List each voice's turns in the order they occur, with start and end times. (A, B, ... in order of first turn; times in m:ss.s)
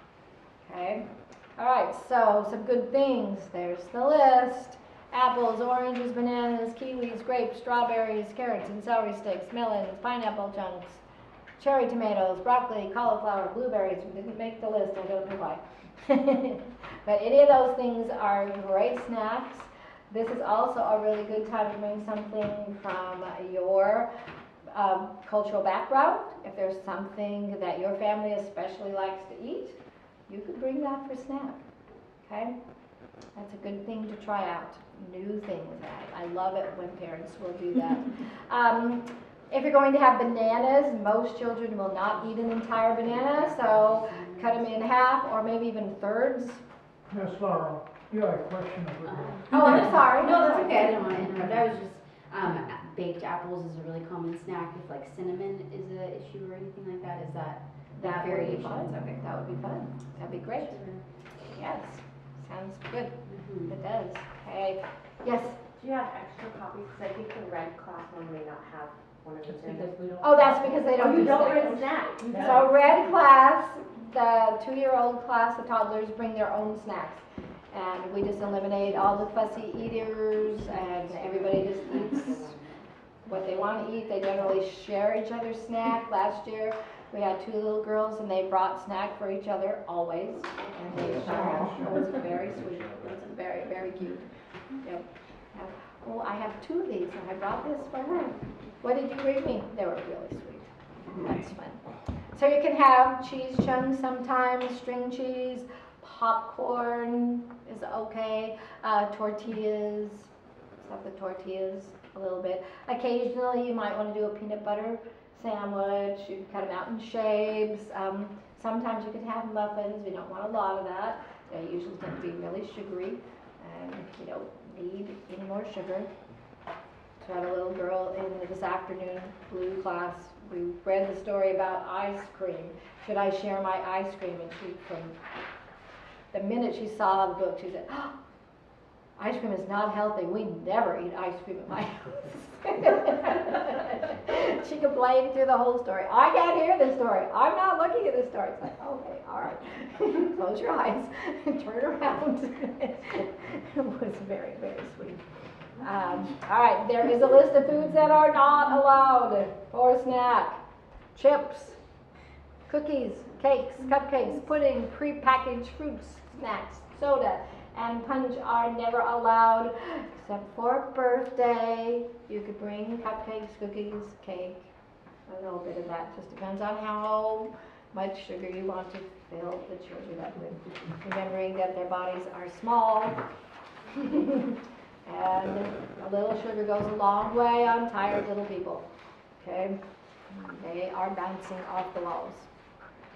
0:00.6-0:11.0 A
0:11.6-0:24.1 A
0:24.7-0:31.6 A
0:32.2-0:32.5 A
0:33.3-0:46.6 A
0:43.5-0:44.7 B
0:47.1-0:49.5 C
0:49.0-0:58.9 B
0:49.5-0:51.0 A
0:58.0-1:00.8 A
1:00.6-1:01.0 B
1:01.5-1:05.6 A
1:03.3-1:03.7 B
1:05.8-1:12.6 D
1:10.2-1:22.5 A
1:18.8-1:20.0 D
1:20.8-1:22.8 D
1:23.3-1:34.2 A
1:23.4-1:23.8 D
1:31.2-1:31.8 C
1:34.8-1:41.8 A
1:42.3-2:06.1 A
2:07.2-2:15.2 A
2:16.3-2:18.2 A
2:19.2-2:35.2 A
2:35.8-2:40.6 A
2:41.1-2:41.8 A
2:42.7-2:54.7 A
2:55.3-3:03.2 A
3:03.9-3:08.8 A
3:09.4-3:12.5 A